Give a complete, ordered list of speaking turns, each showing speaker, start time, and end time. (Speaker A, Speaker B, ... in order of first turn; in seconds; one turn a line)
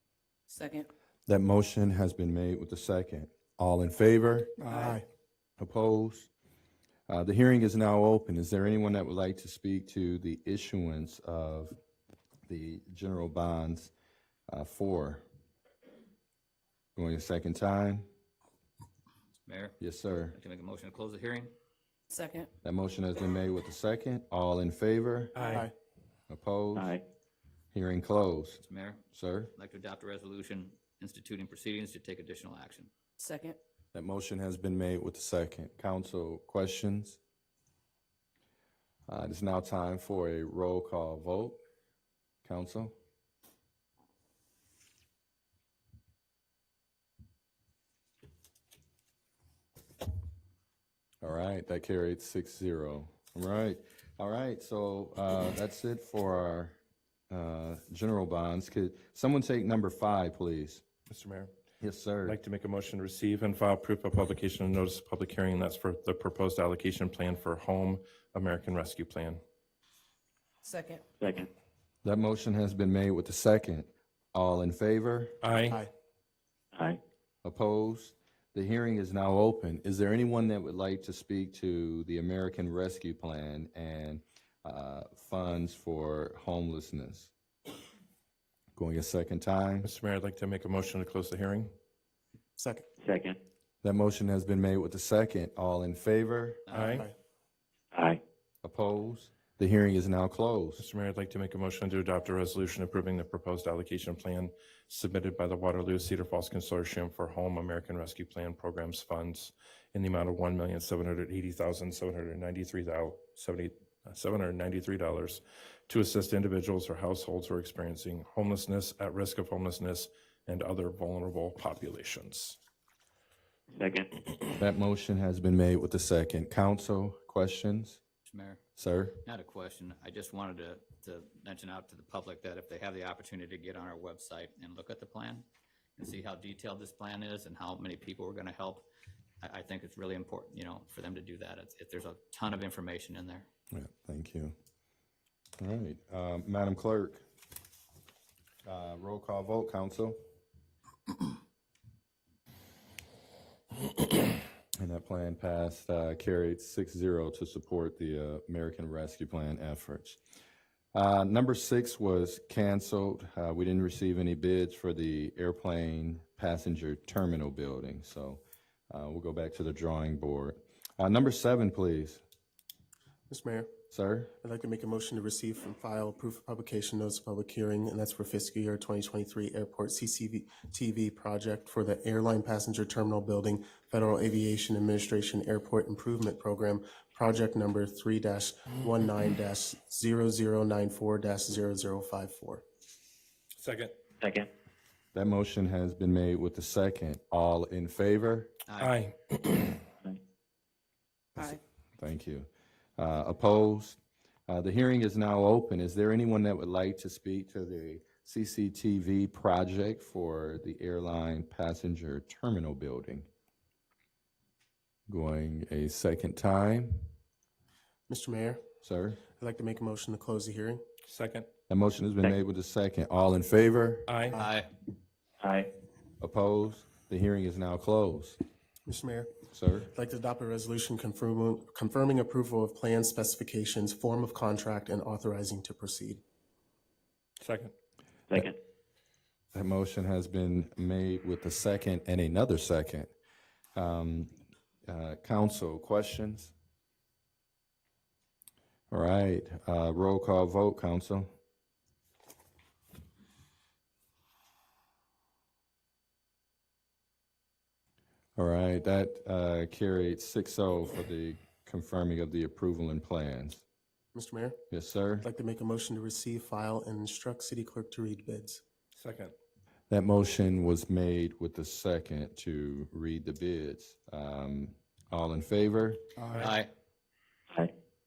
Speaker A: 0.5-0.9
Speaker B: 1.3-4.6
Speaker C: 4.6-5.0
Speaker A: 4.7-5.0
Speaker B: 5.6-6.3
Speaker B: 7.1-11.8
Speaker B: 12.5-13.9
Speaker B: 14.5-15.2
Speaker B: 16.9-18.1
Speaker D: 19.4-19.8
Speaker B: 19.8-20.4
Speaker D: 20.3-21.5
Speaker A: 22.1-22.5
Speaker B: 22.6-25.4
Speaker C: 25.4-25.7
Speaker B: 26.3-27.0
Speaker E: 26.7-27.0
Speaker B: 27.7-29.5
Speaker D: 28.6-29.0
Speaker D: 29.6-32.9
Speaker A: 33.2-33.6
Speaker B: 33.9-37.2
Speaker B: 39.1-41.6
Speaker B: 42.4-42.9
Speaker B: 51.2-56.8
Speaker B: 57.3-60.8
Speaker F: 61.1-61.5
Speaker B: 61.8-62.4
Speaker F: 62.2-69.4
Speaker A: 70.6-71.0
Speaker E: 71.2-71.5
Speaker B: 72.0-75.4
Speaker F: 75.4-75.8
Speaker E: 76.7-77.0
Speaker B: 77.4-87.3
Speaker B: 88.8-89.9
Speaker F: 89.8-91.7
Speaker C: 92.6-92.9
Speaker E: 93.0-93.4
Speaker B: 93.8-96.6
Speaker D: 96.7-97.0
Speaker F: 96.7-97.1
Speaker C: 96.7-97.1
Speaker E: 97.9-98.2
Speaker B: 98.6-100.8
Speaker F: 100.8-122.6
Speaker E: 123.7-124.1
Speaker B: 124.5-128.0
Speaker D: 128.2-128.6
Speaker B: 128.8-129.2
Speaker D: 129.2-135.4
Speaker D: 136.0-138.8
Speaker D: 139.4-143.5
Speaker B: 143.7-144.5
Speaker B: 145.6-147.2
Speaker B: 148.6-150.2
Speaker B: 154.7-160.2
Speaker B: 160.9-172.2
Speaker C: 173.3-173.7
Speaker B: 173.9-174.3
Speaker C: 174.4-192.6
Speaker F: 193.6-193.9
Speaker E: 194.2-194.5
Speaker B: 195.1-198.5
Speaker D: 198.7-199.0
Speaker F: 198.8-199.8
Speaker B: 201.4-213.3
Speaker B: 215.1-217.1
Speaker C: 218.1-218.6
Speaker B: 218.8-219.2
Speaker C: 219.4-220.8
Speaker F: 221.0-221.5
Speaker B: 221.7-224.1
Speaker F: 224.1-224.3
Speaker D: 224.3-224.7
Speaker E: 225.4-225.7
Speaker B: 226.2-228.4
Speaker C: 228.8-229.3
Speaker B: 229.5-229.9
Speaker C: 229.9-236.2
Speaker F: 237.4-237.7
Speaker E: 238.3-238.6
Speaker B: 239.5-243.1
Speaker B: 243.7-244.3
Speaker B: 244.8-246.5
Speaker B: 248.9-251.3
Speaker B: 258.4-263.6
Speaker C: 264.1-264.6
Speaker B: 264.7-265.3
Speaker C: 265.2-268.6
Speaker F: 268.9-269.3
Speaker B: 269.9-276.1
Speaker D: 276.3-276.7